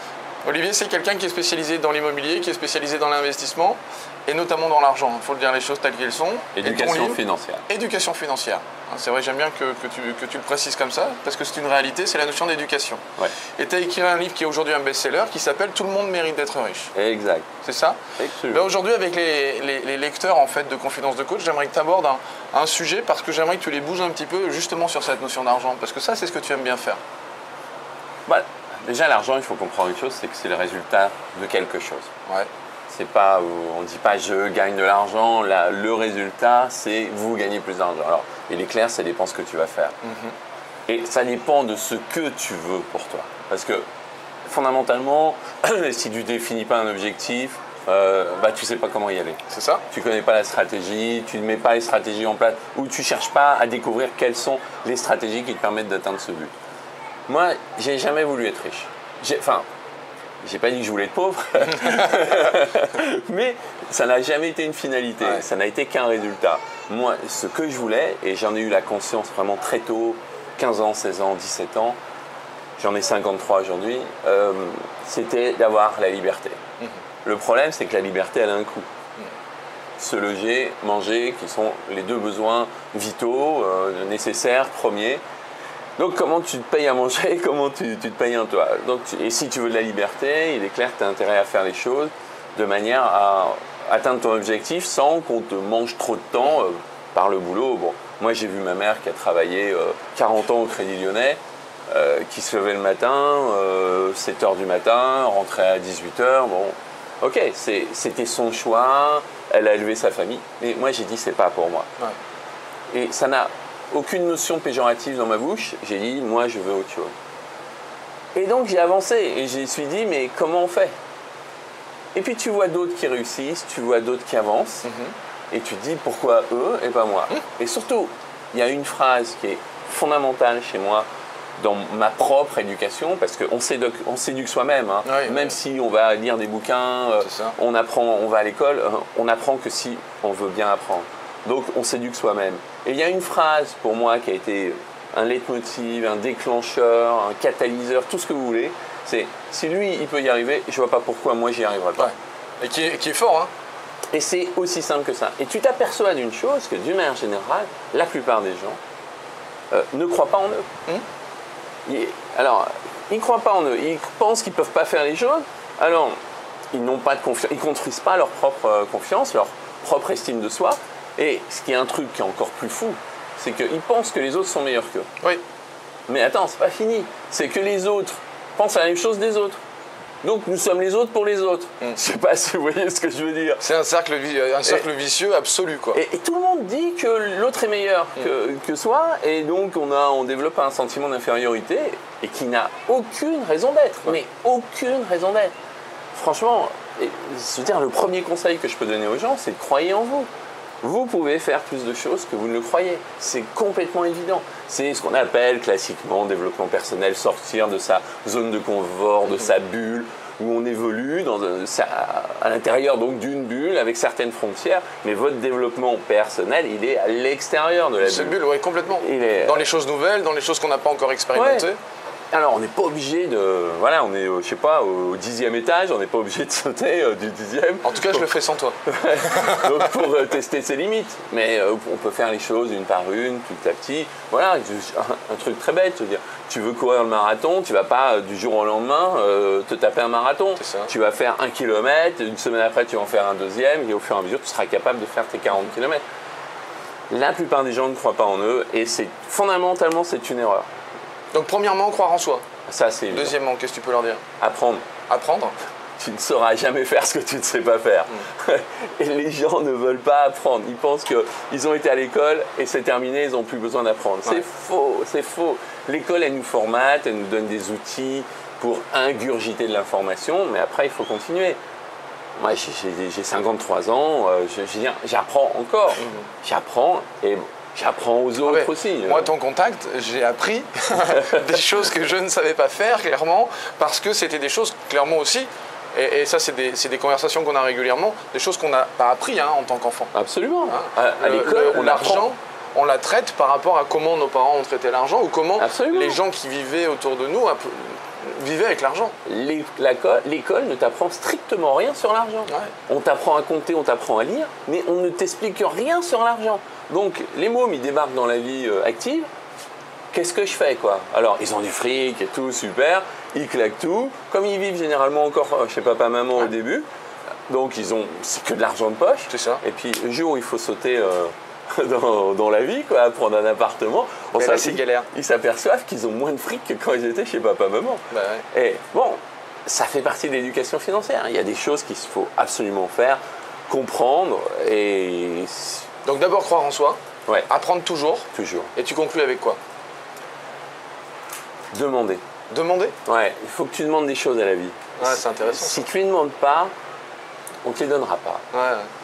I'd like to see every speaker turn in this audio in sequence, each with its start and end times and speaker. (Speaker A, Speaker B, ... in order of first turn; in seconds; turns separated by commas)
Speaker A: 0.4-13.0, Speaker B: 6.6-7.7, Speaker A: 13.5-16.9, Speaker B: 16.9-17.5, Speaker A: 17.6-18.0, Speaker B: 18.2-18.7, Speaker A: 18.5-27.0, Speaker B: 28.3-32.1, Speaker B: 32.9-40.0, Speaker A: 40.0-40.4, Speaker B: 40.9-43.9, Speaker B: 44.5-56.5, Speaker A: 49.5-49.8, Speaker B: 57.3-59.7, Speaker B: 60.4-72.0, Speaker B: 72.8-76.6, Speaker B: 77.2-78.9, Speaker B: 80.0-85.2, Speaker B: 86.0-111.9, Speaker B: 112.9-117.1, Speaker B: 118.3-120.9, Speaker B: 122.2-124.9, Speaker A: 124.8-125.2, Speaker B: 125.5-152.1, Speaker A: 135.0-135.6, Speaker A: 137.2-137.6, Speaker A: 152.0-153.5, Speaker B: 154.1-158.8, Speaker B: 159.7-160.7, Speaker B: 161.9-166.2, Speaker B: 166.7-175.1, Speaker B: 176.1-179.6, Speaker B: 180.2-183.6, Speaker A: 183.6-186.0, Speaker B: 185.9-195.5, Speaker B: 196.1-200.3, Speaker B: 200.8-218.4, Speaker A: 218.0-221.8, Speaker B: 219.0-219.7, Speaker B: 221.3-221.7, Speaker B: 222.3-228.2, Speaker A: 227.8-229.6, Speaker B: 228.9-246.0, Speaker A: 240.6-240.9, Speaker B: 247.1-250.7, Speaker A: 251.3-252.4, Speaker B: 252.7-253.4, Speaker A: 253.1-254.2, Speaker B: 254.4-254.8, Speaker A: 255.1-255.6, Speaker B: 256.0-271.6, Speaker B: 272.4-279.3, Speaker A: 276.0-276.3, Speaker A: 278.4-290.1, Speaker B: 290.1-292.3, Speaker A: 290.7-299.1, Speaker B: 295.6-296.2, Speaker B: 299.2-309.3, Speaker A: 302.5-302.7, Speaker B: 310.1-316.9, Speaker B: 317.5-335.9, Speaker A: 319.3-319.6, Speaker A: 324.4-325.1, Speaker A: 328.1-328.5, Speaker A: 336.0-339.6, Speaker B: 338.3-338.7, Speaker B: 341.7-342.2, Speaker A: 342.5-343.0, Speaker B: 343.1-346.7, Speaker A: 345.0-345.9, Speaker B: 347.6-348.4, Speaker A: 348.5-348.9